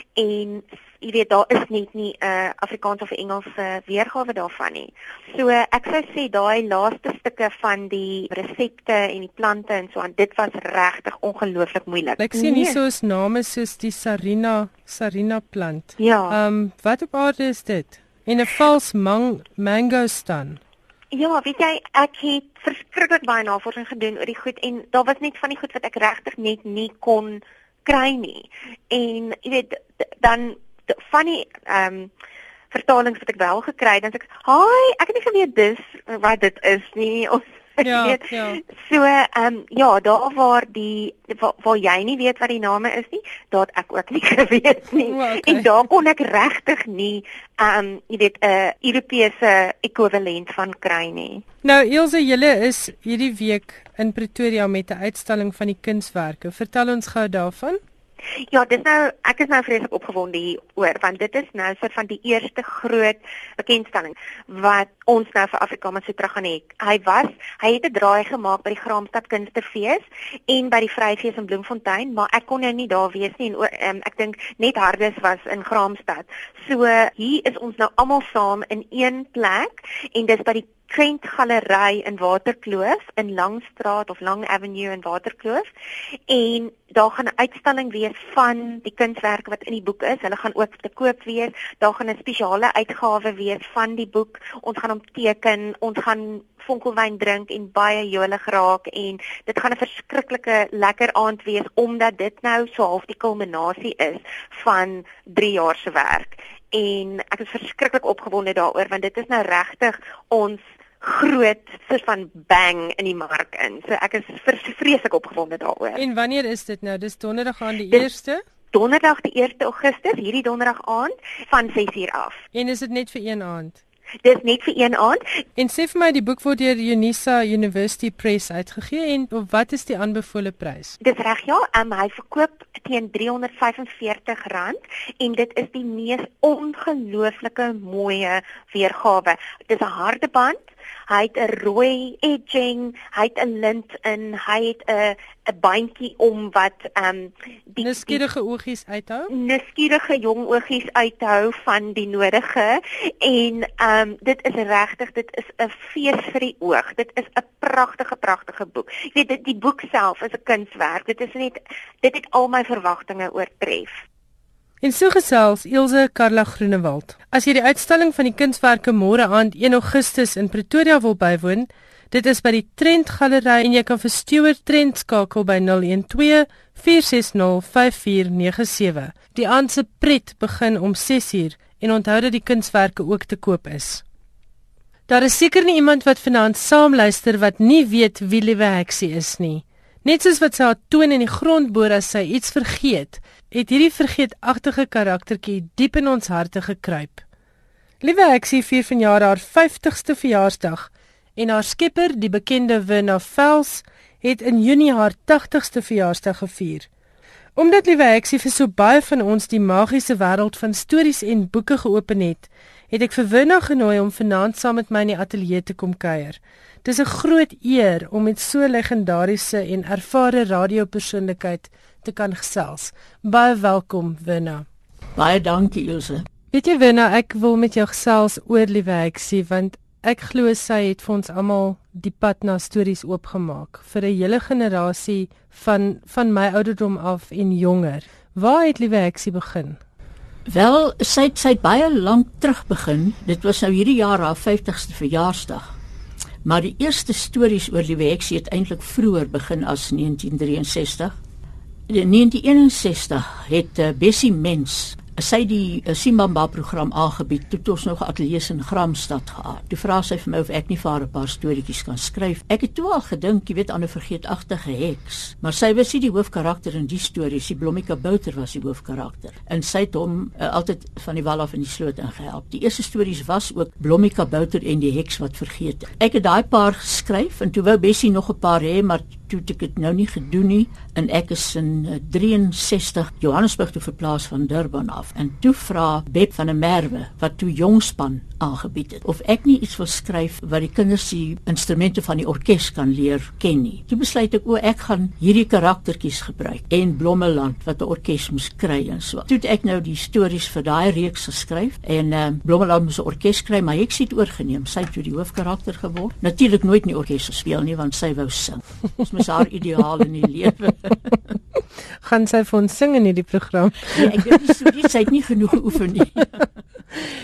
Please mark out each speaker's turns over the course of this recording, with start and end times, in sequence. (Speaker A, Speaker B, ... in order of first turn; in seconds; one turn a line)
Speaker A: 0.2-12.8
Speaker B: 12.2-20.6
Speaker A: 16.0-16.4
Speaker A: 21.1-32.1
Speaker A: 32.7-51.4
Speaker B: 37.8-38.6
Speaker B: 45.1-45.7
Speaker B: 51.6-57.8
Speaker A: 58.5-85.7
Speaker A: 86.3-116.0
Speaker B: 116.0-118.4
Speaker A: 118.7-122.4
Speaker B: 122.5-123.8
Speaker A: 124.2-125.2
Speaker B: 125.6-131.0
Speaker A: 131.0-148.2
Speaker B: 147.8-149.3
Speaker A: 149.3-164.0
Speaker B: 164.8-184.0
Speaker B: 185.1-197.2
Speaker B: 198.0-206.9
Speaker B: 207.6-224.7
Speaker C: 225.2-226.3
Speaker B: 226.5-239.8
Speaker C: 240.5-245.7
Speaker C: 246.4-251.1
Speaker C: 251.9-311.1
Speaker B: 312.0-314.4
Speaker C: 313.9-316.4